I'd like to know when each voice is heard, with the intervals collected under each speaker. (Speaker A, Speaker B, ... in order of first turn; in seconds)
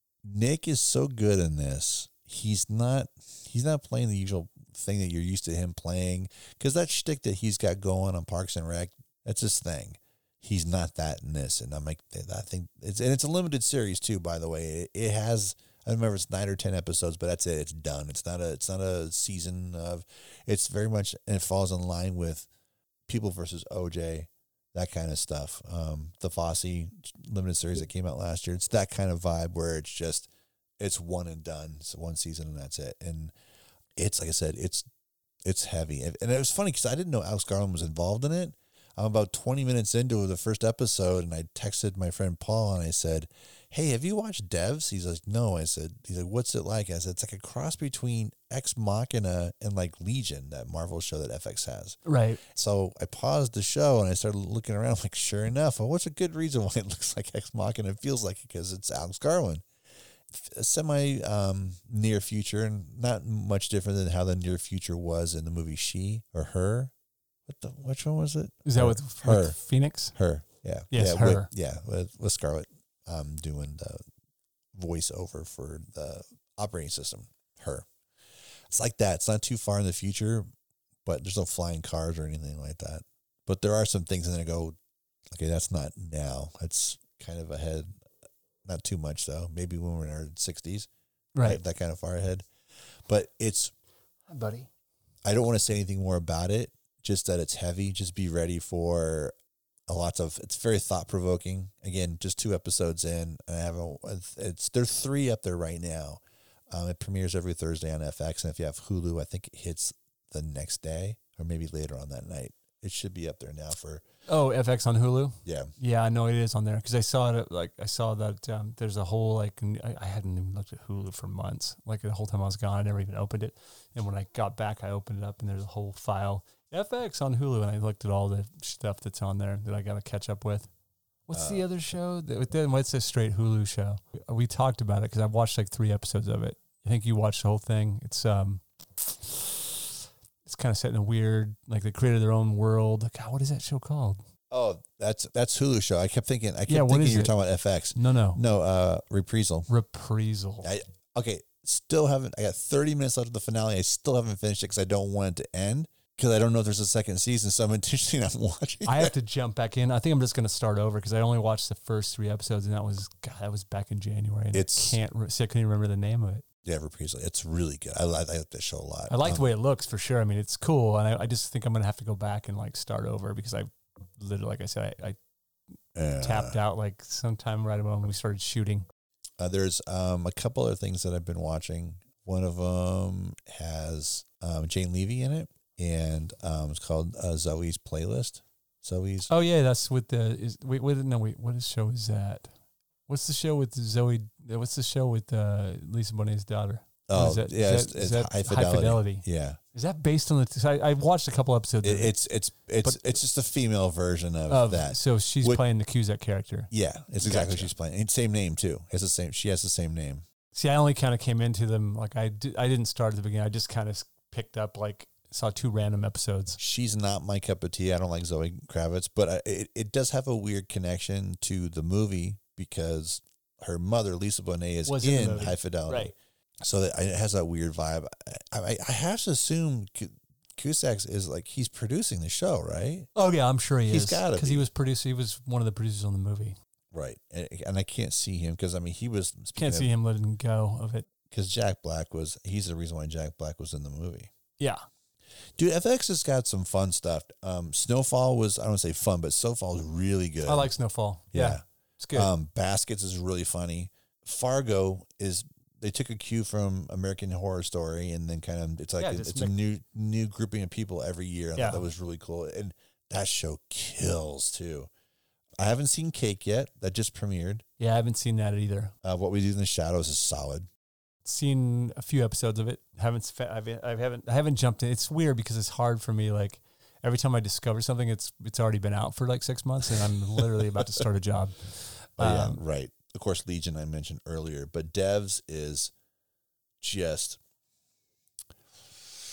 Speaker A: 0.2-22.5, 23.1-30.3, 30.8-33.3, 34.0-34.9, 35.5-59.6, 60.3-66.9, 67.5-69.6, 70.1-74.0, 74.7-77.9, 78.7-80.5, 81.0-84.8, 85.3-87.9, 88.6-90.9, 91.4-92.5, 93.1-93.7, 95.2-99.3, 99.9-114.0, 115.5-115.7, 131.3-131.7, 144.5-149.7, 150.6-159.1, 164.5-165.0, 166.6-169.4, 175.9-176.6, 179.4-189.3, 197.1-199.6, 201.8-205.6, 206.7-210.2, 216.6-233.1, 233.9-234.7, 236.9-239.9, 241.3-244.3, 245.6-250.7, 251.3-264.9, 265.6-267.6, 269.0-270.7, 282.2-285.9, 286.8-287.4
Speaker B: 52.0-52.4, 68.6-70.1, 70.9-71.5, 91.3-91.6, 94.3-94.7, 114.3-130.7, 131.3-144.2, 146.7-147.3, 147.9-148.4, 149.7-150.7, 158.9-166.4, 169.1-175.2, 176.2-178.9, 189.3-192.5, 193.1-202.1, 204.5-206.7, 207.2-207.7, 210.5-216.6, 224.9-226.1, 233.1-236.6, 239.5-241.0, 250.4-252.3, 259.0-259.5, 261.6-261.9, 267.8-268.9, 271.2-282.6